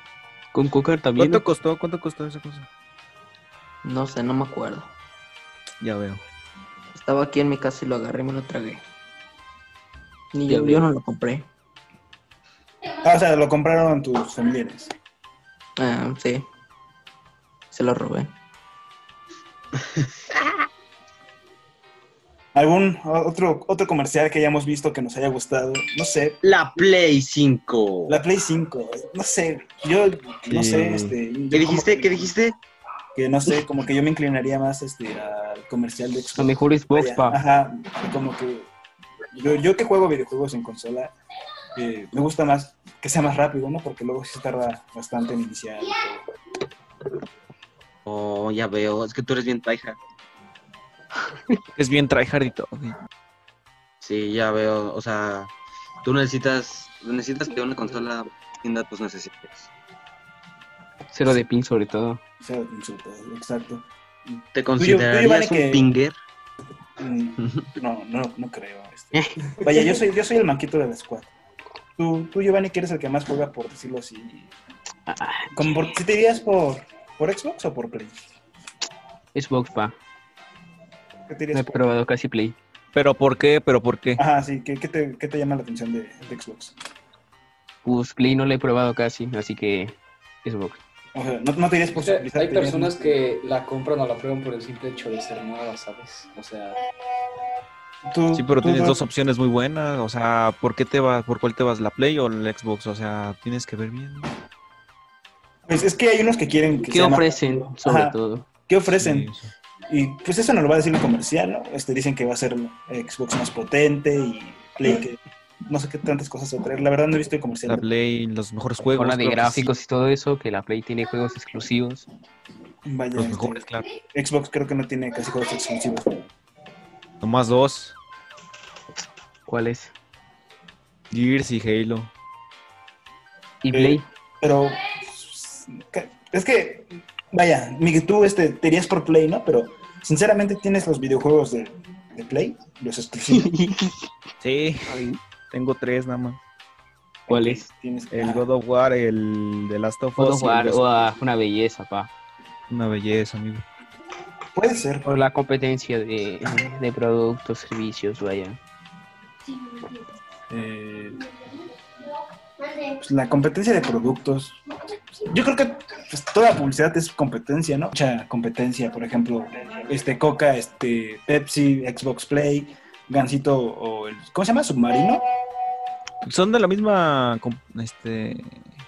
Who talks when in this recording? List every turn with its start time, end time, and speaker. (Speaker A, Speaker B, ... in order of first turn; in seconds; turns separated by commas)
Speaker A: 0.5-1.4, Speaker B: 1.2-2.7, Speaker C: 3.8-4.9, Speaker B: 5.8-6.2, Speaker C: 6.9-8.8, Speaker C: 10.3-11.5, Speaker A: 10.5-10.9, Speaker D: 13.0-14.9, Speaker C: 15.8-16.5, Speaker C: 17.7-18.3, Speaker D: 22.5-26.4, Speaker E: 26.4-28.2, Speaker D: 28.1-32.3, Speaker B: 30.5-31.1, Speaker E: 31.5-32.5, Speaker D: 33.1-38.7, Speaker A: 36.3-37.4, Speaker D: 39.3-41.1, Speaker D: 41.8-46.2, Speaker E: 48.0-50.0, Speaker B: 51.8-53.0, Speaker E: 54.0-55.5, Speaker E: 56.0-59.7, Speaker A: 61.1-62.2, Speaker D: 62.4-65.9, Speaker E: 64.5-66.1, Speaker D: 67.0-71.3, Speaker A: 69.1-69.4, Speaker D: 72.0-74.5, Speaker A: 75.1-75.7, Speaker D: 75.5-78.2, Speaker A: 79.3-80.0, Speaker D: 81.3-82.0, Speaker A: 81.5-82.5, Speaker B: 82.9-84.2, Speaker D: 84.2-86.7, Speaker A: 87.8-90.8, Speaker D: 91.1-93.2, Speaker F: 91.9-96.8, Speaker D: 98.0-99.0, Speaker B: 98.3-104.3, Speaker D: 105.7-108.2, Speaker A: 106.8-108.5, Speaker D: 108.7-109.3, Speaker B: 108.9-109.5, Speaker D: 109.9-117.8, Speaker B: 117.7-119.7, Speaker A: 119.0-122.1, Speaker D: 122.8-126.2, Speaker B: 123.1-123.9, Speaker B: 127.2-128.0, Speaker A: 129.5-129.9, Speaker B: 131.1-132.1, Speaker A: 133.6-134.0, Speaker D: 133.7-143.5, Speaker A: 143.3-144.0, Speaker B: 144.4-146.4, Speaker A: 144.9-145.1, Speaker D: 147.3-148.5, Speaker A: 147.3-147.7, Speaker B: 148.1-151.2, Speaker A: 150.2-152.1, Speaker B: 152.7-153.6, Speaker D: 154.5-155.1, Speaker A: 155.0-158.6, Speaker D: 160.5-161.2, Speaker D: 162.8-164.6, Speaker D: 165.1-175.2, Speaker B: 176.2-178.7